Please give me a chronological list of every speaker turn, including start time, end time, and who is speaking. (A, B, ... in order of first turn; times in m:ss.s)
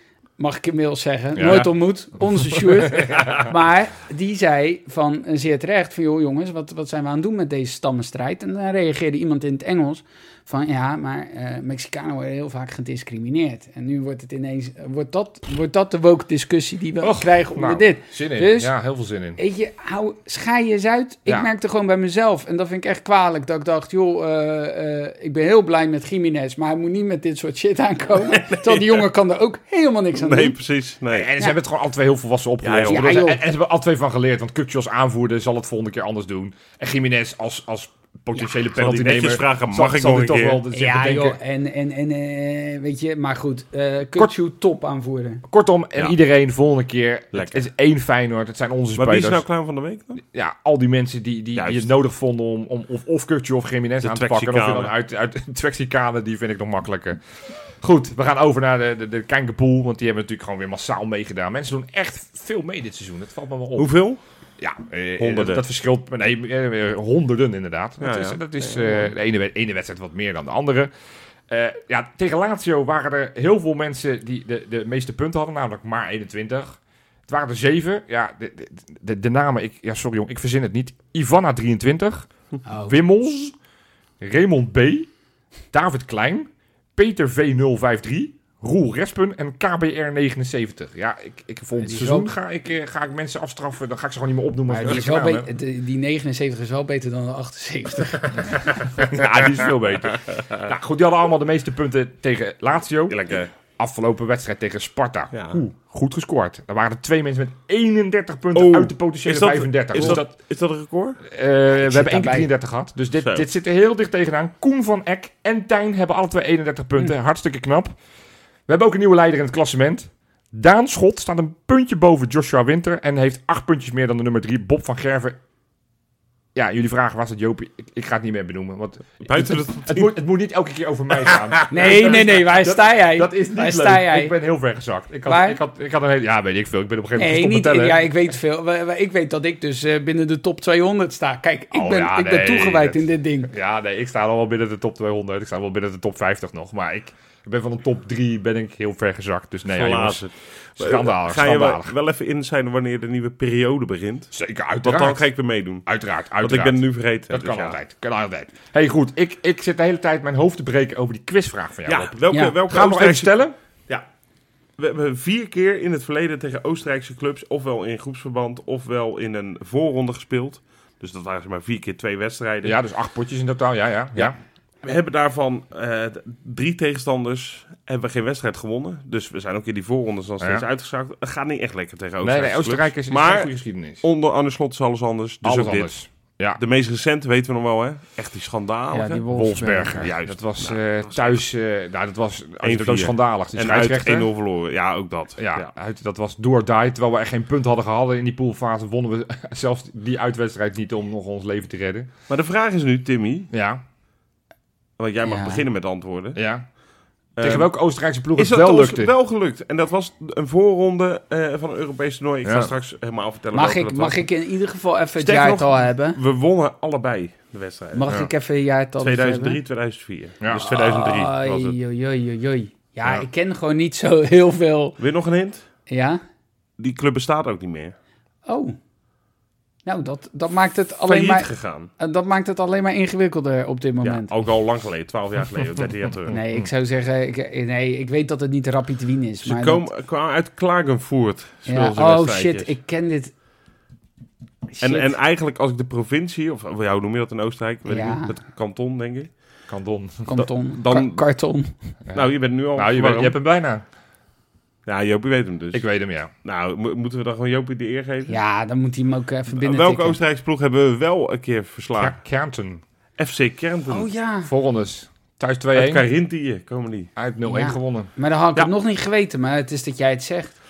0:00.4-0:18.7 A
0:01.3-0:01.6 B
0:01.4-0:01.7 C
0:02.9-0:03.5 B
0:17.0-0:19.4 B
0:19.4-0:30.6 A
0:28.2-0:29.0 C
0:30.1-0:31.3 C
0:31.1-0:41.4 B
0:32.6-0:33.4 C
0:32.9-0:33.4 A
0:38.7-0:40.6 C
0:40.7-0:45.4 A
0:45.5-0:49.4 B
0:47.3-0:47.6 C
0:49.0-0:50.2 C
0:50.3-1:03.9 B
0:51.6-0:51.9 C
0:54.0-0:54.9 C
1:03.8-1:04.2 C
1:04.6-1:10.9 B
1:05.2-1:05.6 C
1:08.0-1:09.1 C
1:11.5-1:22.3 B
1:22.6-1:23.0 A
1:22.8-1:23.6 B
1:24.2-1:25.1 B
1:25.7-1:35.5 B
1:31.8-1:32.3 A
1:34.7-1:38.7 A
1:39.0-1:50.3 B
1:40.1-1:40.6 C
1:43.1-1:43.5 C
1:45.3-1:45.6 C
1:48.5-1:51.2 C
1:51.2-1:58.0 B
1:51.7-1:52.5 A
1:53.2-1:53.5 C
1:58.7-2:05.4 B
2:06.5-2:18.0 B
2:09.2-2:10.1 C
2:11.2-2:12.1 C
2:11.7-2:14.3 A
2:15.2-2:15.6 A
2:17.2-2:23.5 A
2:21.7-2:30.2 B
2:29.7-2:35.9 C
2:30.8-2:31.9 B
2:34.3-2:35.2 B
2:35.8-2:36.8 B
2:36.4-2:37.8 C
2:37.3-2:42.1 B
2:41.8-2:43.3 C
2:42.3-2:42.6 A
2:42.6-2:43.6 B
2:44.8-2:52.7 C
2:52.6-2:54.4 B
2:54.8-3:05.9 C
3:00.4-3:00.6 B
3:02.2-3:04.0 B
3:05.4-3:06.6 B
3:06.6-3:09.2 C
3:08.9-3:10.1 A
3:09.3-3:14.3 B
3:10.0-3:11.4 C
3:12.6-3:15.7 C
3:15.4-3:22.1 B
3:22.3-3:23.5 C
3:23.5-3:23.8 B
3:25.0-3:26.4 C
3:25.2-3:25.6 A
3:26.3-3:26.6 B
3:27.4-3:27.7 C
3:27.4-3:29.1 B
3:28.3-3:34.2 C
3:32.4-3:32.7 B
3:33.5-3:36.2 A
3:35.2-3:38.3 C
3:37.9-3:39.6 A
3:39.0-3:41.8 C
3:40.4-3:40.7 B
3:40.7-3:45.0 A
3:45.0-3:45.6 C
3:45.9-3:46.2 A
3:46.8-3:47.9 C
3:48.4-3:48.8 A
3:49.8-3:54.3 A
3:51.1-3:51.9 C
3:54.0-3:56.4 C
3:56.3-3:59.9 A
3:59.4-4:02.7 C
4:01.6-4:03.3 A
4:04.7-4:05.1 A
4:04.8-4:09.4 C
4:07.9-4:08.4 A
4:09.7-4:10.3 B
4:10.2-4:11.7 A
4:10.3-4:11.2 C
4:12.0-4:13.8 B
4:12.1-4:13.4 C
4:14.8-4:15.8 C
4:15.7-4:16.3 B
4:16.4-4:18.4 C
4:18.3-4:20.2 A
4:19.5-4:22.2 C
4:21.9-4:22.8 B
4:23.2-4:24.1 C
4:23.9-4:24.5 A
4:24.4-4:26.0 B
4:25.7-4:27.1 C
4:27.2-4:28.1 B
4:27.4-4:30.6 A